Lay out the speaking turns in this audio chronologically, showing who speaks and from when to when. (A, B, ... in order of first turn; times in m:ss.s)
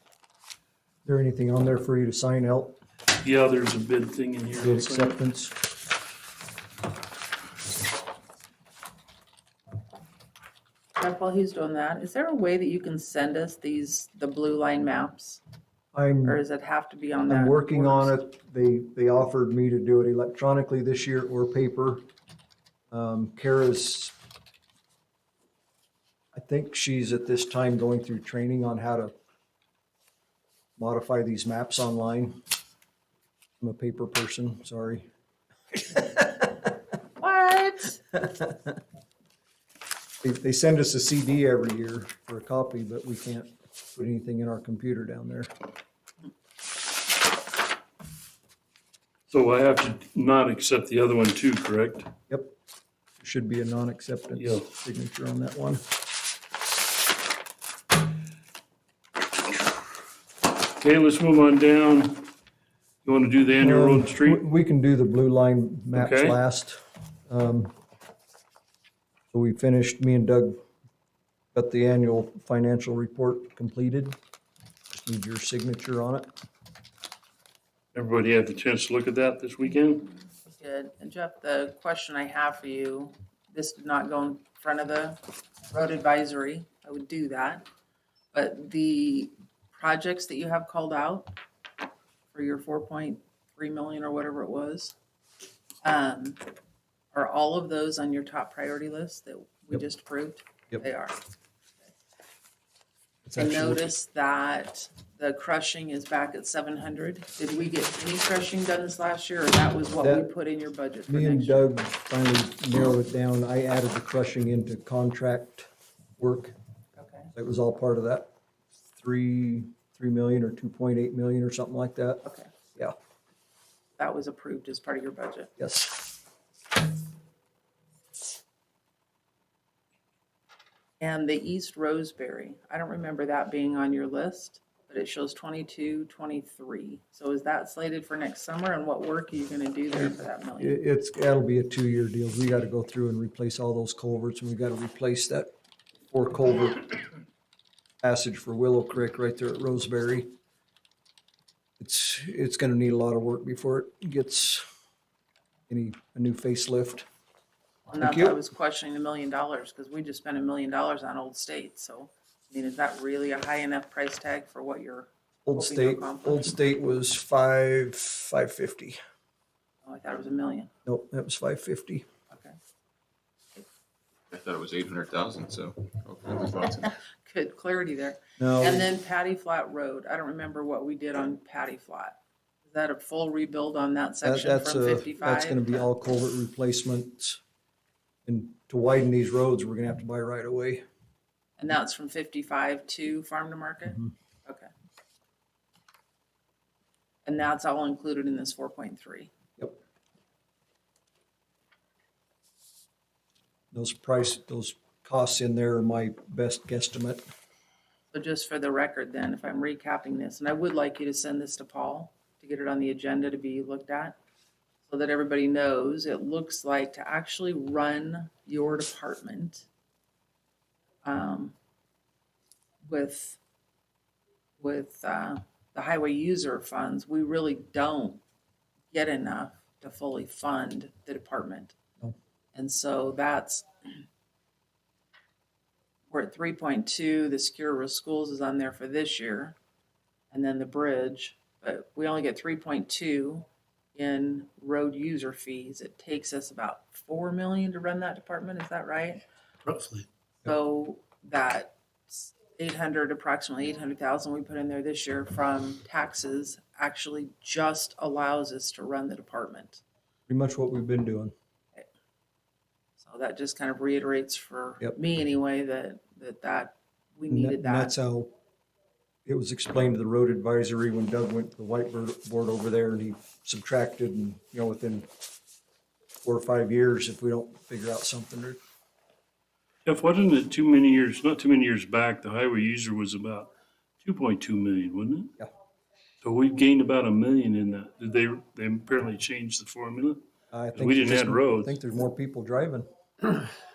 0:01.0-0:02.8 A
0:03.2-0:05.2 B
0:04.6-0:05.5 A
0:11.0-0:15.4 C
0:15.9-0:16.4 A
0:16.2-0:18.1 C
0:17.3-0:22.0 A
0:22.9-0:24.1 A
0:26.3-0:29.1 A
0:30.8-0:32.3 A
0:33.6-0:35.1 A
0:35.7-0:36.7 A
0:37.2-0:38.0 C
0:38.1-0:38.8 A
0:40.2-0:45.5 A
0:49.3-0:52.1 B
0:52.3-0:52.5 A
0:53.2-0:55.8 A
0:54.4-0:54.6 B
1:00.8-1:02.2 B
1:03.0-1:04.4 B
1:03.6-1:07.7 A
1:05.9-1:06.4 B
1:09.3-1:10.6 A
1:11.5-1:14.2 A
1:14.9-1:16.3 A
1:17.9-1:20.0 B
1:20.2-1:27.6 C
1:28.3-1:31.3 C
1:32.3-1:34.9 C
1:35.8-1:36.4 C
1:37.1-1:41.2 C
1:43.2-1:43.9 A
1:43.4-1:51.7 C
1:50.0-1:50.3 A
1:51.1-1:56.5 A
1:57.0-1:57.3 C
1:57.3-1:58.3 A
1:59.0-2:02.2 A
2:02.2-2:02.5 C
2:04.0-2:05.5 C
2:05.6-2:06.1 A
2:11.0-2:20.8 C
2:20.6-2:25.5 A
2:26.1-2:27.0 A
2:28.0-2:30.3 A
2:31.8-2:34.6 A
2:35.7-2:37.0 A
2:37.9-2:46.5 C
2:38.0-2:38.4 A
2:45.4-2:49.0 A
2:49.8-2:50.7 C
2:50.8-2:52.0 A
2:52.3-2:52.6 C
2:54.3-2:56.9 D
2:57.2-3:05.7 C
2:58.4-2:58.9 A
3:04.2-3:07.4 A
3:08.2-3:10.8 A
3:11.6-3:14.7 C
3:17.2-3:19.3 C
3:23.7-3:27.2 A
3:28.1-3:34.2 C
3:34.8-3:39.7 C
3:41.0-3:41.5 C
3:42.8-3:43.4 C
3:44.6-3:48.2 C
3:48.9-3:51.7 C
3:52.5-3:53.7 C
3:56.1-3:59.5 C
4:00.3-4:09.2 C
4:09.6-4:10.0 B
4:10.4-4:19.8 C
4:20.3-4:21.3 A
4:23.0-4:27.9 C
4:27.3-4:28.3 A
4:29.2-4:35.1 A
4:36.2-4:38.6 A
4:39.8-4:43.5 B
4:44.0-4:45.3 B
4:46.2-4:50.2 B
4:50.5-4:53.4 A
4:50.7-4:51.8 B